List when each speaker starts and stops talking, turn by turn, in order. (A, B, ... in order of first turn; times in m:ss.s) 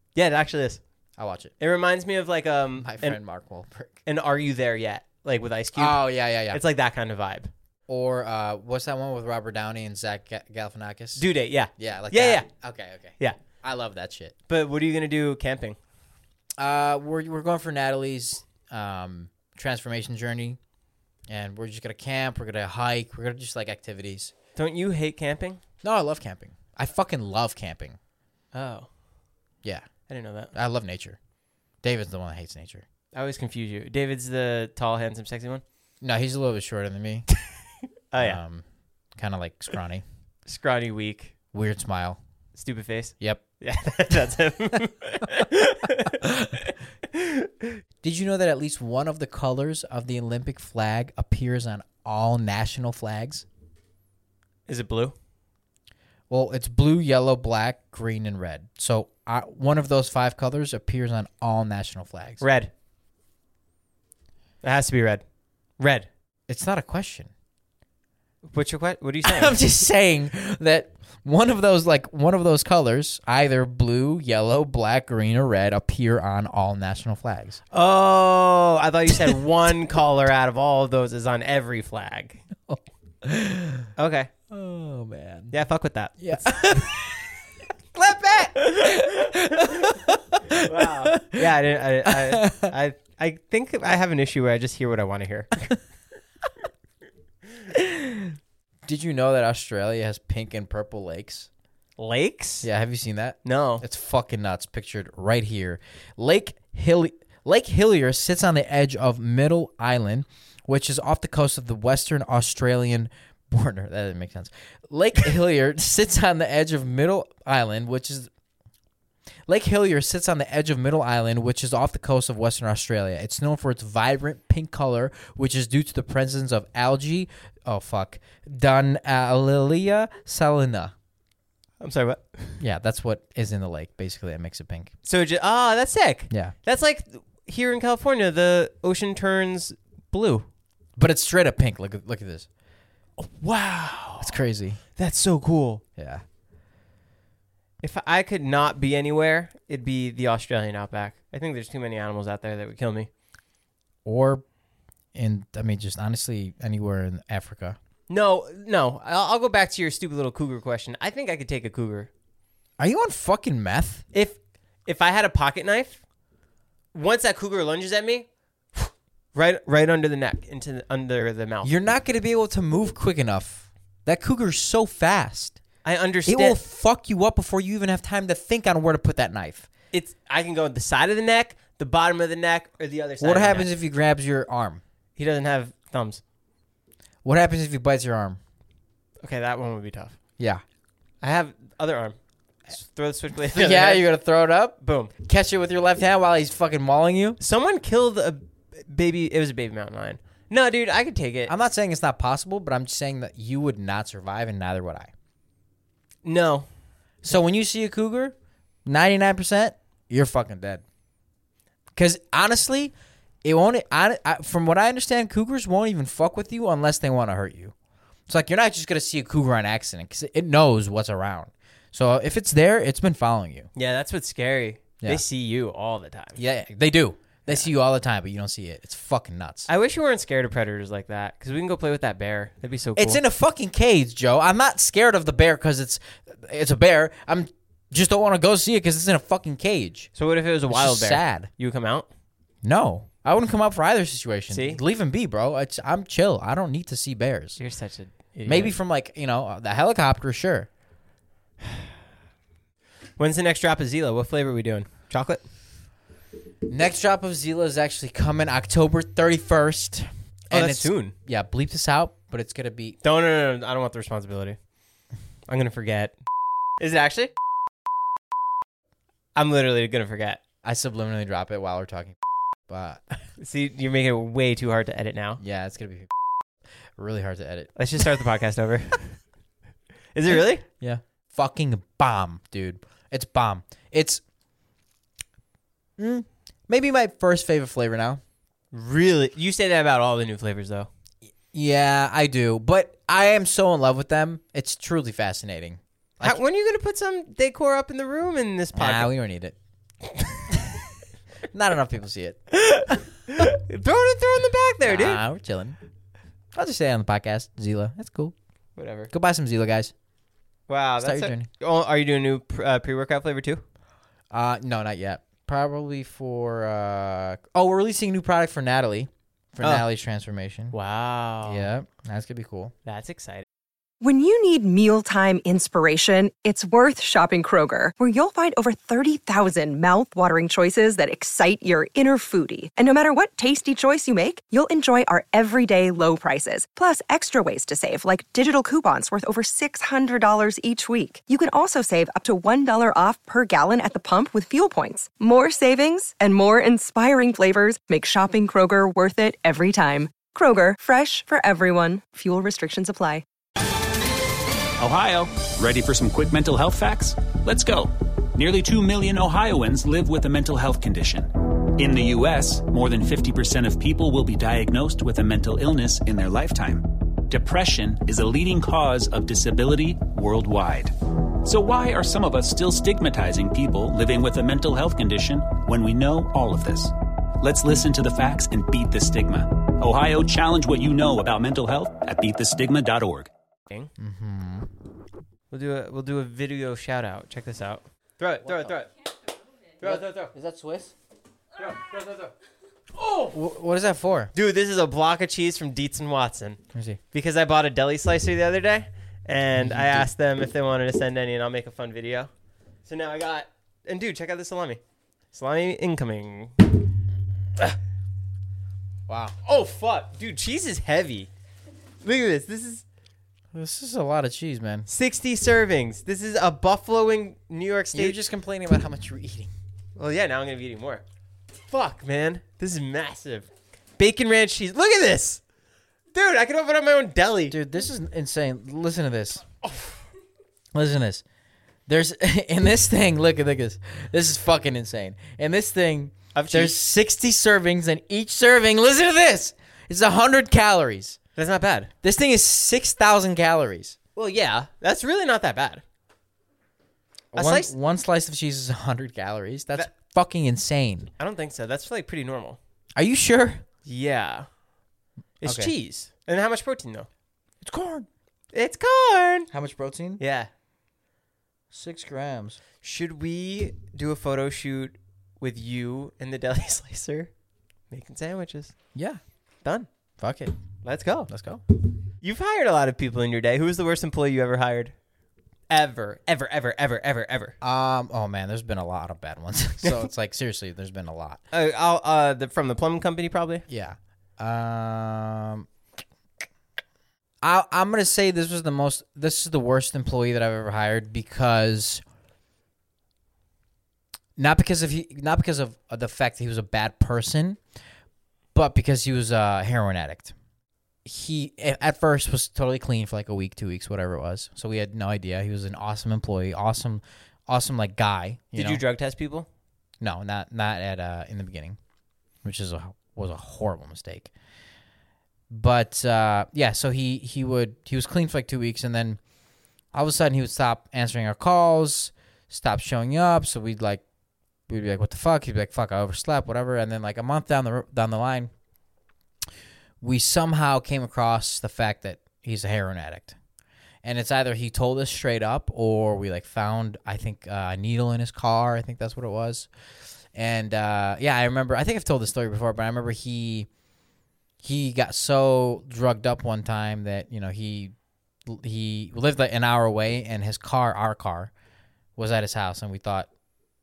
0:00.1-0:00.8 A
0:01.2-0:01.5 B
0:01.6-0:03.2 A
0:02.8-0:03.9 B
0:04.1-0:07.5 A
0:05.8-0:06.6 B
0:07.9-0:11.2 B
0:11.2-0:12.5 A
0:11.8-0:14.4 B
0:14.5-0:15.8 A
0:16.6-0:20.6 B
0:21.3-0:24.3 B
0:24.6-0:25.6 A
0:25.8-0:28.0 B
0:28.5-0:28.9 A
0:30.1-0:30.5 A
0:30.5-0:31.2 B
0:31.8-0:32.8 B
0:33.1-0:35.6 A
0:36.0-0:37.3 B
0:38.1-0:38.4 A
0:38.2-0:38.6 B
0:39.2-0:40.0 B
0:40.4-0:41.3 A
0:41.5-0:42.2 B
0:42.6-0:46.4 A
0:46.2-0:46.6 B
0:47.1-0:47.7 A
0:48.0-0:53.4 B
0:54.7-0:55.1 A
0:56.3-1:02.4 B
1:02.4-1:02.7 A
1:04.6-1:05.2 A
1:05.8-1:06.1 A
1:06.5-1:07.3 B
1:08.4-1:09.6 A
1:09.2-1:17.6 B
1:17.7-1:22.4 A
1:22.7-1:23.9 B
1:24.0-1:24.3 A
1:24.5-1:25.6 B
1:25.5-1:27.0 A
1:26.2-1:27.2 B
1:27.9-1:31.5 B
1:28.3-1:35.7 A
1:32.0-1:32.7 B
1:37.7-1:41.5 B
1:42.0-1:42.7 A
1:42.6-1:58.3 B
1:43.4-1:43.8 A
1:59.5-2:10.9 B
2:11.8-2:12.6 A
2:12.6-2:14.9 B
2:15.0-2:20.4 A
2:21.0-2:22.5 B
2:23.2-2:24.4 A
2:24.2-2:24.8 B
2:25.0-2:25.8 A
2:26.0-2:26.2 B
2:27.8-2:33.1 A
2:34.0-2:34.4 B
2:35.1-2:37.8 B
2:38.1-2:42.1 A
2:42.8-2:44.0 B
2:44.1-2:46.0 A
2:46.9-2:51.8 A
2:51.6-2:55.6 B
2:55.8-2:56.6 A
2:56.3-2:59.7 B
2:59.9-3:03.7 A
3:03.2-3:04.8 B
3:05.2-3:06.2 A
3:07.2-3:08.4 B
3:09.2-3:10.2 A
3:11.2-3:12.2 A
3:12.7-3:14.1 A
3:13.5-3:17.4 B
3:14.8-3:15.1 A
3:17.4-3:21.5 A
3:21.5-3:25.1 B
3:26.2-3:26.7 A
3:27.2-3:28.4 B
3:28.9-3:30.8 B
3:31.9-3:32.9 B
3:33.4-3:37.7 B
3:38.3-3:43.7 B
3:43.8-3:46.4 A
3:46.4-3:49.7 B
3:49.7-3:53.2 A
3:53.0-4:00.1 B
4:00.2-4:02.1 A
4:00.7-4:01.5 B
4:02.6-4:07.6 B
4:04.5-4:04.8 A
4:07.6-4:08.8 A
4:08.4-4:10.7 B
4:13.2-4:15.4 A
4:16.6-4:23.0 B
4:20.5-4:21.1 A
4:23.0-4:24.6 A
4:25.5-4:26.1 A
4:26.8-4:27.3 A
4:29.4-4:30.4 A
4:30.6-4:33.2 B
4:33.4-4:35.4 A
4:35.4-4:36.1 B
4:37.0-4:37.7 B
4:37.8-4:39.1 A
4:40.1-4:40.6 A
4:40.8-4:44.2 B
4:46.0-4:48.2 B
4:48.7-4:50.9 A
4:51.5-4:56.4 B
4:56.2-4:59.1 A
4:58.8-4:59.6 B
5:01.5-5:02.9 B
5:02.6-5:05.2 A
5:04.9-5:05.8 B
5:06.5-5:08.4 B
5:08.8-5:09.1 A
5:09.1-5:09.9 B
5:10.7-5:13.6 A
5:11.0-5:11.5 B
5:14.3-5:20.8 B
5:20.7-5:21.7 A
5:21.4-5:22.7 B
5:22.9-5:23.4 A
5:24.0-5:53.2 C
5:54.8-6:10.9 D
6:11.4-6:23.3 D
6:24.0-6:24.7 B
6:25.5-6:28.9 A
6:28.4-6:28.8 B
6:29.8-6:30.3 A
6:29.8-6:30.9 B
6:31.6-6:32.3 A
6:33.0-6:34.3 B
6:34.3-6:36.6 A
6:36.7-6:37.0 B
6:37.1-6:42.3 A
6:39.5-6:40.1 B
6:42.8-6:44.8 A
6:45.3-6:46.7 A
6:49.1-6:49.4 B
6:49.4-6:51.3 A
6:52.0-6:52.8 A
6:53.5-6:54.9 B
6:54.9-6:58.2 A
6:57.9-6:59.5 B
7:00.0-7:01.0 A
7:01.7-7:05.4 A
7:06.1-7:07.6 A
7:07.5-7:09.4 B
7:10.7-7:11.2 B
7:11.9-7:21.2 B
7:16.4-7:16.8 A
7:21.4-7:21.9 A
7:22.0-7:24.0 B
7:24.2-7:25.8 A
7:27.3-7:27.7 A
7:27.3-7:31.1 B
7:31.2-7:32.6 A
7:33.0-7:33.6 B
7:33.8-7:34.5 A
7:35.4-7:37.1 A
7:35.4-7:35.7 B
7:37.6-7:38.1 B
7:38.5-7:39.5 A
7:39.5-7:40.2 B
7:40.2-7:40.5 A
7:41.7-7:42.6 B
7:42.8-7:47.3 A
7:47.9-7:48.8 A
7:48.9-7:49.2 B
7:50.2-7:50.6 B
7:50.8-7:51.3 A
7:51.3-7:51.6 B
7:52.2-7:54.9 A
7:55.7-7:57.6 A
7:57.6-8:01.4 B
8:01.5-8:03.6 A
8:03.7-8:05.7 B
8:07.4-8:12.0 B
8:14.4-8:17.6 B
8:18.5-8:20.3 B
8:21.0-8:28.8 B
8:28.5-8:29.5 A
8:30.0-8:31.8 B
8:32.4-8:34.3 B
8:35.5-8:39.2 B
8:39.9-8:44.0 B
8:44.7-8:48.5 B
8:50.0-8:53.4 B
8:54.0-8:59.7 B
9:00.4-9:03.7 B
9:04.6-9:07.9 B
9:08.5-9:11.5 B
9:12.2-9:13.3 B